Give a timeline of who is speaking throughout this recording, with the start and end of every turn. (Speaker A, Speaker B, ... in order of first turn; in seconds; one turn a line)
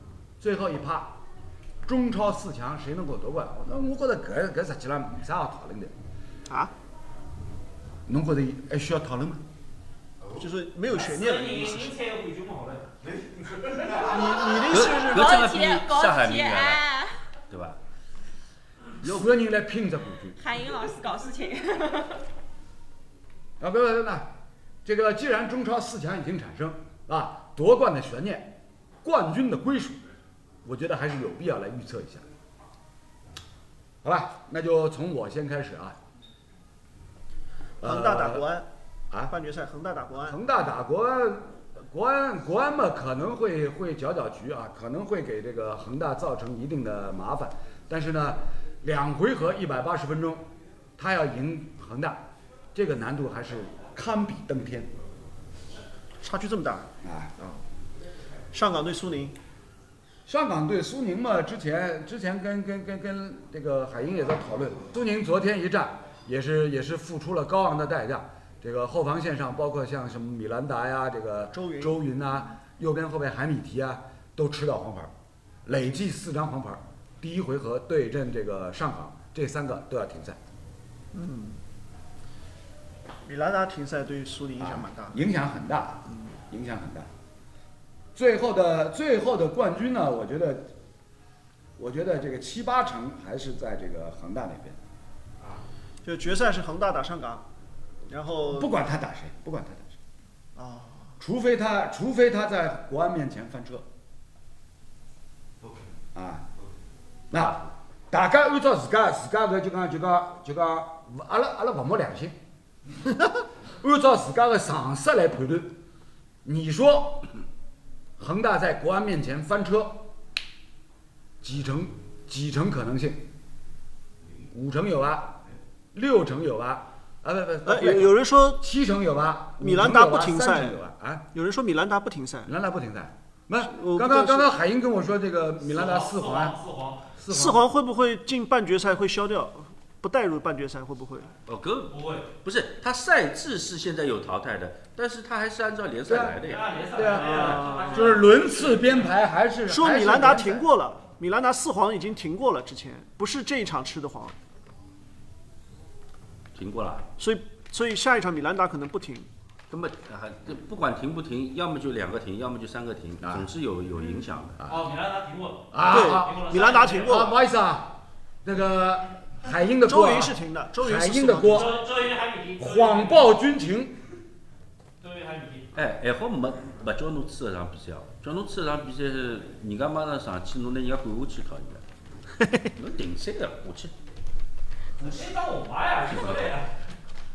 Speaker A: 0.4-1.2
Speaker A: 1.9-5.9
Speaker A: 8.1-9.4
Speaker B: 10.4-11.9
Speaker C: 10.9-14.3
Speaker B: 14.1-15.3
Speaker D: 14.7-16.9
Speaker E: 14.7-17.2
Speaker D: 17.5-17.8
Speaker D: 19.0-19.3
Speaker A: 19.1-20.4
Speaker E: 20.4-22.2
Speaker A: 23.6-24.3
Speaker A: 24.9-30.0
Speaker A: 30.6-32.2
Speaker A: 34.0-36.0
Speaker A: 37.8-38.5
Speaker B: 37.8-38.7
Speaker B: 39.3-40.4
Speaker A: 40.2-50.4
Speaker A: 51.0-52.2
Speaker A: 52.8-54.9
Speaker B: 56.2-57.6
Speaker A: 57.0-57.4
Speaker B: 58.5-59.4
Speaker A: 60.3-75.1
Speaker B: 71.5-71.9
Speaker A: 75.7-80.4
Speaker B: 81.1-81.6
Speaker B: 83.2-85.2
Speaker A: 84.6-87.1
Speaker A: 88.2-90.7
Speaker A: 91.8-94.8
Speaker B: 96.0-97.5
Speaker B: 98.1-98.7
Speaker A: 98.5-100.0
Speaker B: 100.6-101.0
Speaker A: 101.2-103.9
Speaker A: 106.1-106.5
Speaker A: 107.3-112.4
Speaker A: 113.8-115.8
Speaker A: 116.5-117.3
Speaker A: 118.2-120.1
Speaker A: 121.4-123.3
Speaker A: 124.5-125.4
Speaker A: 125.9-131.3
Speaker B: 127.7-128.6
Speaker B: 129.6-130.8
Speaker B: 131.3-132.5
Speaker A: 132.5-136.6
Speaker B: 133.6-134.5
Speaker C: 135.6-137.1
Speaker A: 137.2-137.6
Speaker B: 137.3-141.3
Speaker D: 141.5-146.7
Speaker C: 141.9-142.3
Speaker A: 146.1-146.4
Speaker C: 146.4-149.1
Speaker A: 147.0-150.7
Speaker B: 147.2-148.1
Speaker B: 149.7-154.4
Speaker D: 156.6-157.1
Speaker B: 157.2-159.3
Speaker D: 159.7-164.6
Speaker A: 163.2-163.5
Speaker C: 164.7-167.3
Speaker A: 165.7-171.7
Speaker B: 165.9-167.3
Speaker B: 169.9-171.7
Speaker C: 171.4-173.3
Speaker A: 172.6-174.0
Speaker C: 175.0-175.7
Speaker D: 175.8-181.8
Speaker D: 182.8-183.9
Speaker C: 185.0-186.7
Speaker D: 186.1-186.5